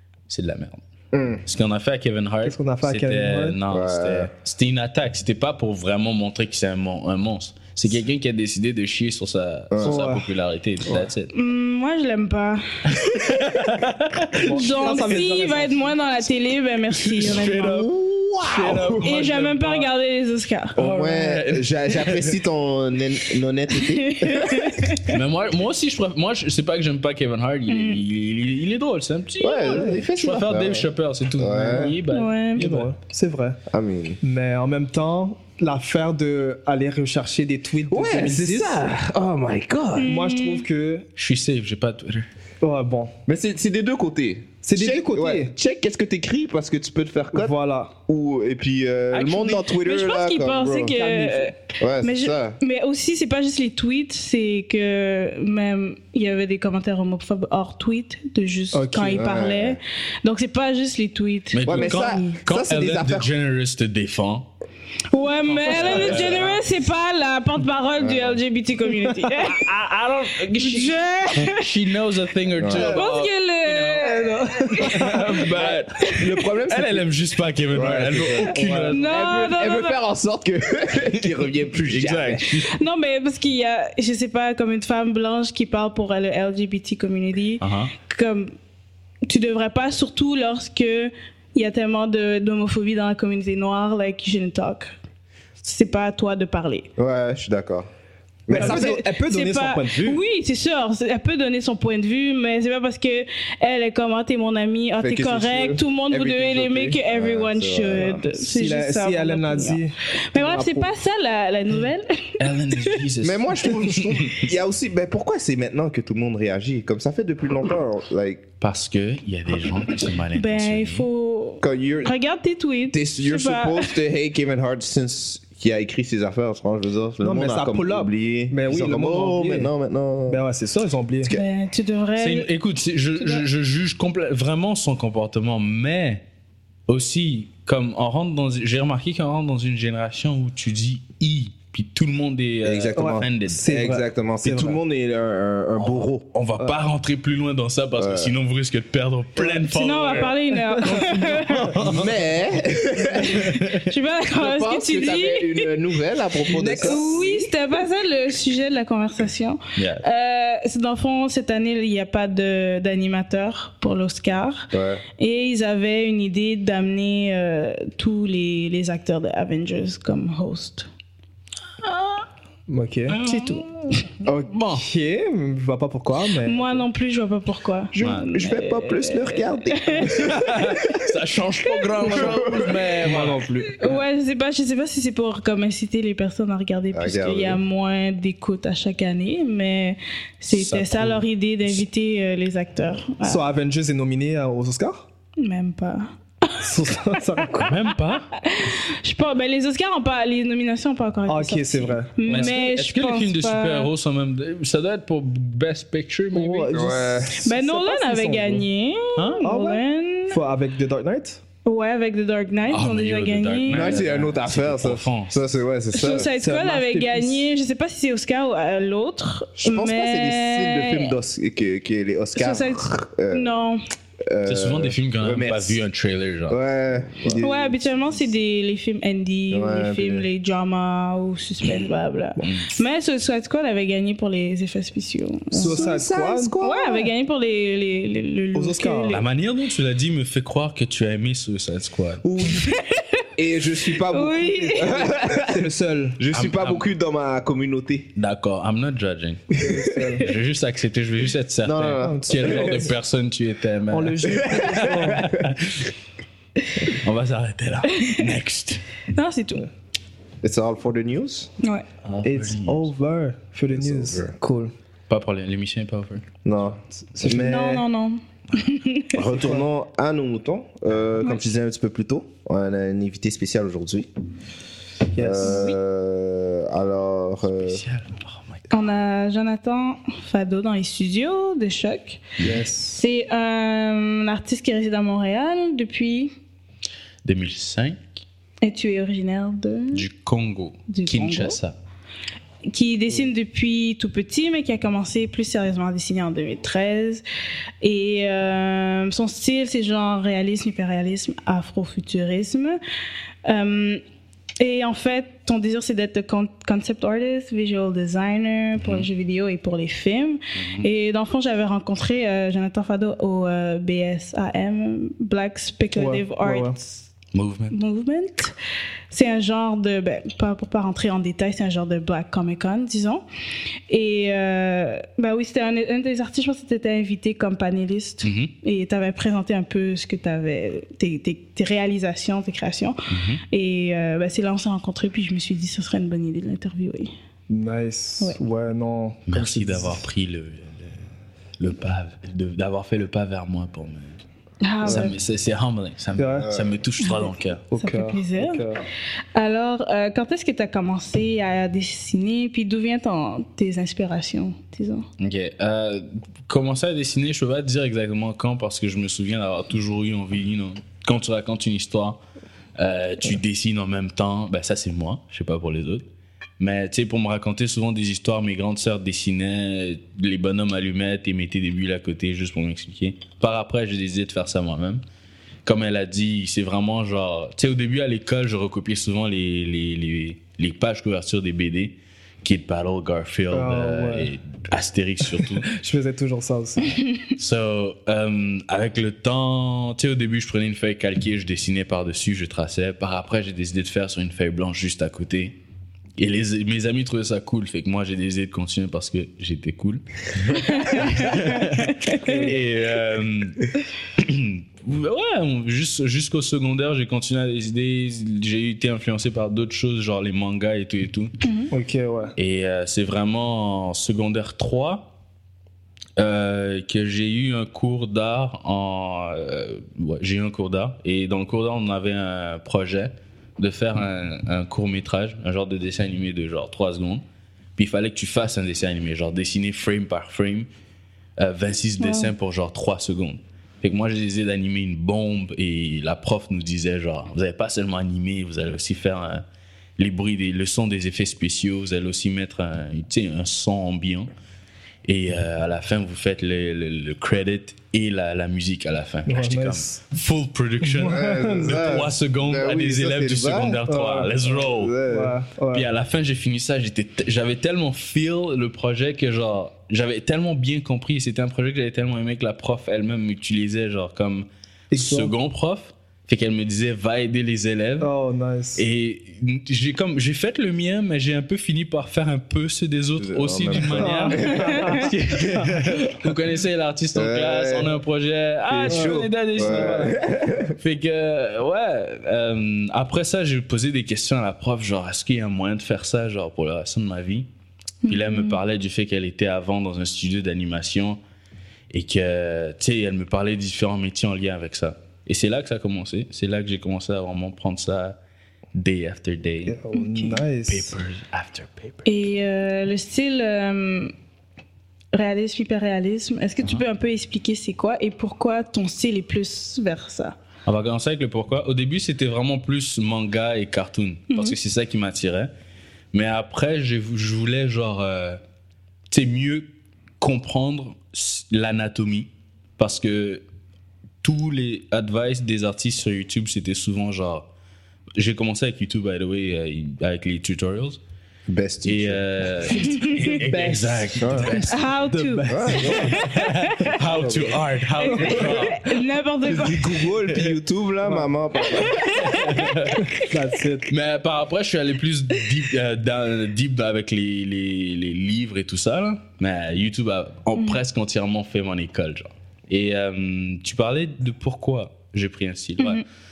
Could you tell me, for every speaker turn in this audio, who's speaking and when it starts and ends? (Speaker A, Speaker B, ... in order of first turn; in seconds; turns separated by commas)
Speaker A: 0.3-0.8, Speaker B: 1.1-1.4, Speaker A: 1.5-11.3, Speaker C: 2.4-3.6, Speaker B: 3.7-4.3, Speaker B: 9.7-10.0, Speaker C: 9.8-10.3, Speaker D: 11.3-12.7, Speaker A: 12.9-15.1, Speaker C: 14.4-15.9, Speaker D: 14.5-17.9, Speaker A: 16.9-19.4, Speaker B: 17.6-18.9, Speaker C: 18.5-19.9, Speaker D: 19.0-20.8, Speaker A: 20.8-22.3, Speaker B: 20.8-24.7, Speaker D: 23.9-25.1, Speaker A: 25.1-32.9, Speaker D: 27.7-28.0, Speaker B: 29.4-32.0, Speaker D: 32.1-32.6, Speaker C: 32.6-33.6, Speaker B: 33.7-34.2, Speaker C: 34.2-38.8, Speaker B: 37.9-40.1, Speaker A: 38.1-38.4, Speaker D: 40.0-40.6, Speaker C: 40.0-41.1, Speaker A: 41.2-42.3, Speaker C: 42.6-43.1, Speaker B: 43.3-47.6, Speaker C: 44.6-45.5, Speaker C: 47.4-48.0, Speaker B: 48.1-52.6, Speaker A: 49.1-49.7, Speaker D: 49.8-62.4, Speaker C: 58.7-59.2, Speaker B: 59.0-59.8, Speaker A: 61.5-64.5, Speaker B: 61.6-63.3, Speaker D: 65.1-69.6, Speaker A: 65.5-66.5, Speaker B: 65.7-66.6, Speaker B: 68.0-68.4, Speaker A: 69.4-79.3, Speaker D: 70.6-71.7, Speaker B: 72.6-73.0, Speaker D: 72.7-75.4, Speaker C: 74.0-75.2, Speaker B: 75.1-77.1, Speaker B: 77.7-82.5, Speaker C: 78.5-78.9, Speaker D: 78.9-80.0, Speaker A: 81.8-82.7, Speaker D: 82.6-88.5, Speaker A: 87.6-87.9, Speaker D: 89.3-94.9, Speaker D: 95.6-96.9, Speaker B: 97.0-97.9, Speaker B: 98.5-99.0, Speaker C: 98.5-100.2, Speaker D: 98.5-113.0, Speaker B: 105.0-108.2, Speaker C: 108.3-110.9, Speaker A: 112.4-114.5, Speaker B: 113.2-118.4, Speaker A: 118.6-121.1, Speaker D: 120.3-123.9, Speaker B: 121.6-122.2, Speaker B: 122.9-130.4, Speaker C: 127.2-129.7, Speaker C: 130.3-131.3, Speaker D: 131.3-132.5, Speaker A: 132.2-136.2, Speaker A: 136.9-143.6, Speaker B: 142.6-146.3, Speaker C: 143.0-144.8, Speaker A: 145.8-152.2, Speaker B: 148.0-148.3, Speaker D: 149.7-151.7, Speaker B: 151.7-157.5, Speaker D: 153.4-155.7, Speaker C: 156.5-157.2, Speaker D: 156.8-170.9, Speaker A: 159.8-160.1, Speaker B: 164.7-165.0, Speaker C: 172.7-173.6, Speaker A: 173.1-174.9, Speaker C: 174.2-176.8, Speaker D: 176.4-180.6, Speaker A: 178.0-178.3, Speaker B: 178.0-180.6, Speaker A: 180.1-183.5, Speaker D: 181.7-182.6, Speaker B: 182.2-182.6, Speaker C: 182.3-184.0, Speaker D: 183.8-193.4, Speaker B: 186.9-187.6, Speaker A: 190.5-191.3, Speaker C: 193.2-195.1, Speaker D: 195.4-196.7, Speaker C: 196.6-197.8, Speaker A: 197.6-198.3, Speaker D: 198.4-203.9, Speaker C: 201.3-202.5, Speaker A: 202.3-206.7, Speaker C: 206.3-208.7, Speaker B: 206.7-207.4, Speaker D: 207.4-210.4, Speaker A: 209.2-209.4, Speaker C: 209.4-211.4, Speaker D: 211.7-214.0, Speaker A: 212.7-215.4, Speaker B: 213.7-216.3, Speaker D: 215.9-221.2, Speaker C: 216.1-217.5, Speaker B: 219.6-223.5, Speaker D: 222.4-223.8, Speaker B: 224.3-225.8, Speaker A: 224.4-226.6, Speaker B: 226.5-227.8, Speaker D: 227.4-236.0, Speaker B: 229.5-230.3, Speaker C: 235.5-236.5, Speaker B: 235.6-237.1, Speaker D: 236.6-239.3, Speaker C: 238.6-239.2, Speaker A: 239.1-242.2, Speaker C: 242.2-242.7, Speaker D: 242.6-243.1, Speaker B: 243.4-248.1, Speaker D: 244.0-245.0, Speaker C: 244.8-246.2, Speaker A: 246.3-246.9, Speaker A: 248.2-249.7, Speaker C: 249.5-250.3, Speaker B: 249.6-250.2, Speaker A: 250.2-255.9, Speaker B: 251.7-252.9, Speaker C: 252.0-252.9, Speaker C: 253.9-255.3, Speaker B: 254.3-255.4, Speaker A: 256.9-258.9, Speaker D: 257.9-258.2, Speaker D: 259.1-259.7, Speaker B: 260.4-261.5, Speaker A: 262.1-262.9, Speaker C: 262.2-264.7, Speaker B: 263.7-264.4, Speaker A: 265.1-266.2, Speaker B: 266.4-267.8, Speaker C: 267.0-267.8, Speaker D: 267.2-269.3, Speaker B: 269.1-274.1, Speaker C: 269.4-269.6, Speaker C: 275.1-275.7, Speaker B: 275.2-277.8, Speaker A: 277.5-278.7, Speaker D: 278.7-282.2, Speaker C: 282.4-283.0, Speaker D: 282.9-286.3, Speaker A: 287.2-288.0, Speaker D: 288.6-290.1, Speaker A: 289.9-291.8, Speaker D: 290.9-291.6, Speaker D: 292.7-297.2, Speaker D: 297.8-302.8, Speaker D: 303.5-304.0, Speaker D: 304.6-317.1, Speaker A: 308.8-309.1, Speaker A: 310.6-310.9, Speaker C: 316.0-316.8, Speaker A: 317.3-317.8, Speaker D: 317.7-318.5, Speaker D: 319.1-323.2, Speaker D: 323.9-333.0, Speaker A: 328.2-328.5, Speaker A: 333.1-333.4, Speaker D: 333.5-337.1, Speaker C: 337.5-340.0, Speaker A: 339.3-341.0, Speaker A: 341.6-344.2, Speaker D: 344.6-345.2, Speaker A: 344.8-347.6, Speaker C: 346.2-346.5, Speaker B: 346.4-346.7, Speaker C: 347.7-348.8, Speaker D: 347.8-348.6, Speaker D: 349.4-355.1, Speaker A: 355.2-362.2, Speaker A: 362.8-366.1, Speaker A: 366.6-375.0, Speaker A: 375.6-385.7, Speaker C: 383.5-384.3, Speaker C: 385.4-387.0, Speaker A: 387.4-395.6, Speaker A: 396.2-411.3, Speaker D: 400.6-402.4, Speaker C: 402.2-402.5, Speaker D: 411.4-411.7, Speaker C: 411.7-412.3, Speaker A: 412.4-415.1, Speaker A: 416.2-427.2, Speaker A: 427.8-430.7, Speaker A: 431.4-439.4, Speaker D: 432.0-432.3, Speaker A: 440.0-444.3, Speaker A: 445.1-455.0, Speaker C: 449.3-450.0, Speaker C: 450.8-451.9, Speaker B: 451.1-453.8, Speaker C: 453.9-454.3, Speaker B: 454.4-455.4, Speaker C: 455.1-455.9, Speaker A: 455.7-468.1, Speaker C: 464.9-465.3, Speaker C: 468.0-468.8, Speaker A: 468.8-480.2, Speaker B: 473.2-474.9, Speaker C: 473.9-475.8, Speaker B: 477.1-478.0, Speaker B: 478.7-480.8, Speaker C: 478.9-480.2, Speaker A: 480.8-487.5, Speaker D: 488.1-488.6, Speaker A: 488.1-491.2, Speaker A: 491.9-498.2, Speaker A: 498.8-502.1, Speaker C: 499.6-501.0, Speaker D: 502.1-504.1, Speaker D: 505.1-510.4, Speaker A: 510.7-515.5, Speaker A: 516.1-518.4, Speaker A: 519.1-519.7, Speaker A: 520.2-523.4, Speaker A: 524.2-527.5, Speaker A: 528.2-531.0, Speaker B: 531.5-534.6, Speaker A: 531.8-535.0, Speaker D: 532.8-533.2, Speaker C: 533.4-536.3, Speaker D: 534.7-536.9, Speaker B: 535.5-536.3, Speaker A: 535.9-538.9, Speaker B: 537.0-538.5, Speaker D: 538.0-540.0, Speaker B: 539.4-542.1, Speaker C: 541.0-541.3, Speaker D: 541.6-542.7, Speaker A: 542.1-543.1, Speaker C: 543.0-543.9, Speaker A: 543.9-556.0